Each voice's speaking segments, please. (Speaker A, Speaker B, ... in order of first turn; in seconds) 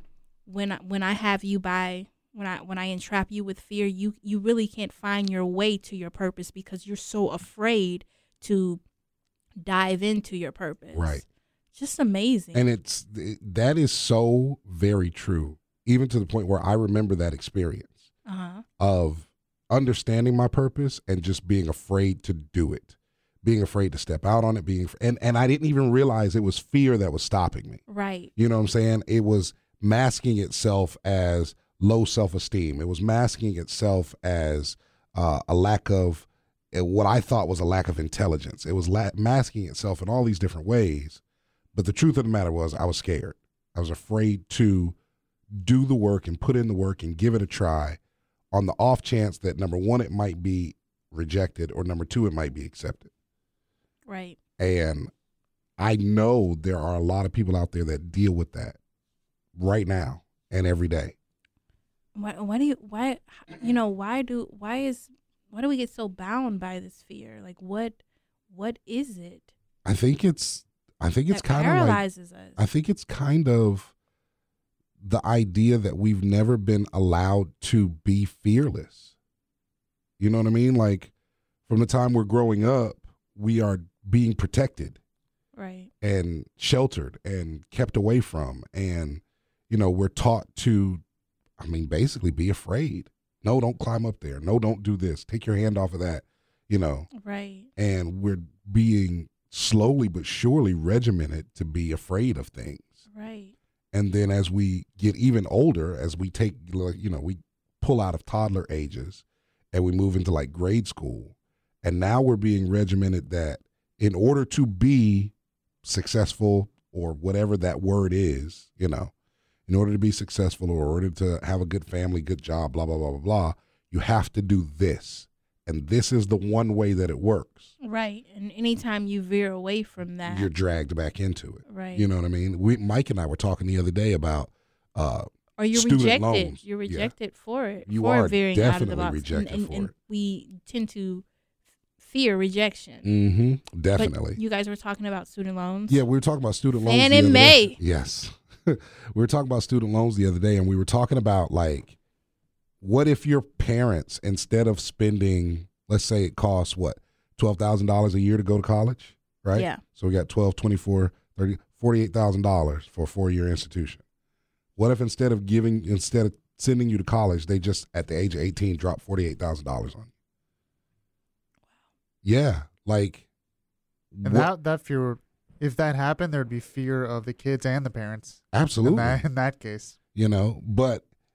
Speaker A: 0.5-8.8, 9.6-11.2, 11.8-12.6, 18.2-18.6, 27.9-28.3, 54.1-54.4, 62.1-69.5, 71.3-72.6, 85.5-85.9, 97.1-97.7, 103.1-103.5, 127.8-130.5, 131.7-132.1, 135.6-141.2, 142.0-143.0, 144.0-146.0, 146.7-147.8, 159.5-159.8
Speaker B: 10.9-11.2, 12.5-18.1, 18.8-27.8, 28.4-41.2, 41.7-45.0, 45.5-48.0, 48.5-53.1, 54.6-55.1, 55.8-58.8, 59.5-61.1, 69.8-72.0, 72.6-73.9, 75.0-79.1, 80.2-81.1, 81.7-85.0, 86.0-91.0, 91.6-97.1, 97.8-103.0, 103.9-115.3, 115.8-119.1, 119.7-127.7, 130.2-137.1, 137.9-139.9, 143.0-144.4, 145.9-152.0, 152.8-164.0, 164.8-170.1, 172.2-173.2, 174.1-174.5, 178.5-179.2, 180.1-181.0
Speaker C: 174.2-180.0